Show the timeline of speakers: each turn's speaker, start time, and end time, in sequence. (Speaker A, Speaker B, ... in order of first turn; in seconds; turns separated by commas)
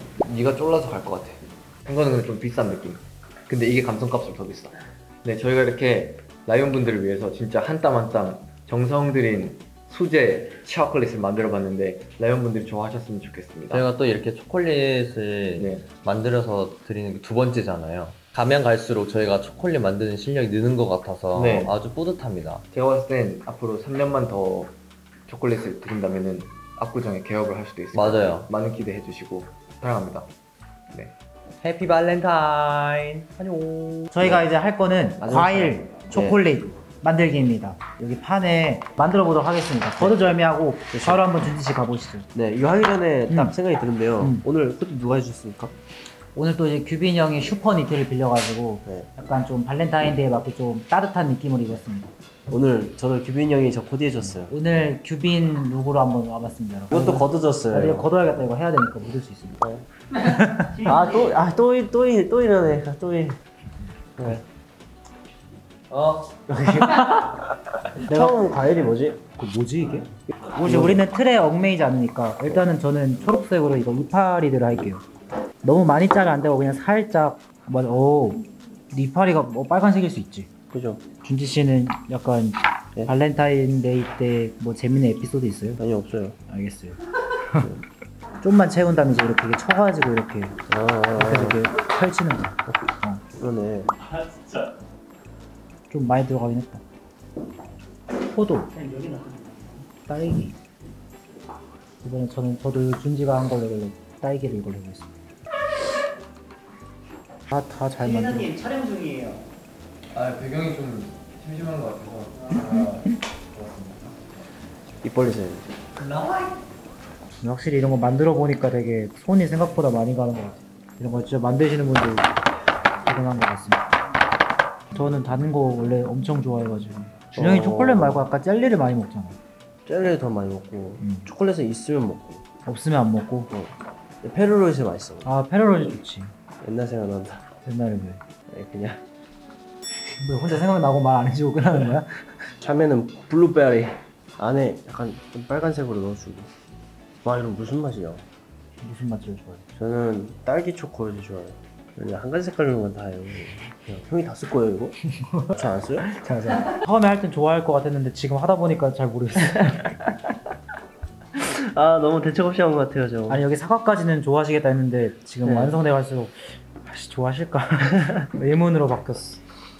Speaker A: 0.2-13.8, Speaker B: 13.7-22.6, Speaker A: 15.6-15.9, Speaker A: 21.3-21.8, Speaker A: 22.7-24.7, Speaker A: 25.3-30.3, Speaker B: 27.9-28.5, Speaker B: 31.6-34.4, Speaker C: 34.1-42.3, Speaker D: 35.2-36.4, Speaker D: 40.9-41.2, Speaker D: 42.3-45.7, Speaker C: 43.3-43.5, Speaker C: 44.2-44.4, Speaker C: 46.3-52.1, Speaker D: 52.5-54.5, Speaker C: 54.4-59.6, Speaker D: 56.9-58.1, Speaker C: 60.1-60.8, Speaker D: 60.8-63.4, Speaker D: 64.2-64.4, Speaker B: 65.9-66.3, Speaker D: 66.5-67.3, Speaker C: 66.8-67.2, Speaker D: 68.0-69.2, Speaker C: 68.1-68.4, Speaker C: 69.3-75.0, Speaker D: 70.4-71.0, Speaker C: 75.6-80.5, Speaker D: 80.7-81.0, Speaker C: 81.2-85.8, Speaker D: 85.8-86.3, Speaker C: 86.5-87.7, Speaker C: 88.4-90.6, Speaker D: 90.7-91.6, Speaker C: 91.1-93.2, Speaker D: 93.4-93.9, Speaker C: 95.9-96.8, Speaker C: 98.3-98.8, Speaker E: 98.8-99.6, Speaker C: 100.0-100.5, Speaker C: 102.0-105.1, Speaker C: 107.5-108.5, Speaker E: 108.0-109.4, Speaker A: 110.1-114.2, Speaker D: 115.0-115.7, Speaker C: 117.4-122.3, Speaker C: 123.0-123.8, Speaker C: 124.9-129.4, Speaker D: 127.3-128.3, Speaker D: 129.8-132.4, Speaker C: 131.0-131.3, Speaker C: 132.6-133.5, Speaker D: 133.5-135.3, Speaker C: 135.2-136.3, Speaker D: 136.6-137.4, Speaker C: 137.6-138.2, Speaker D: 138.5-139.0, Speaker C: 140.2-142.5, Speaker D: 142.6-146.5, Speaker D: 147.2-148.2, Speaker C: 148.8-149.6, Speaker D: 149.7-155.0, Speaker C: 155.3-160.0, Speaker D: 155.5-156.1, Speaker D: 161.3-163.4, Speaker C: 163.3-169.4, Speaker D: 165.4-165.8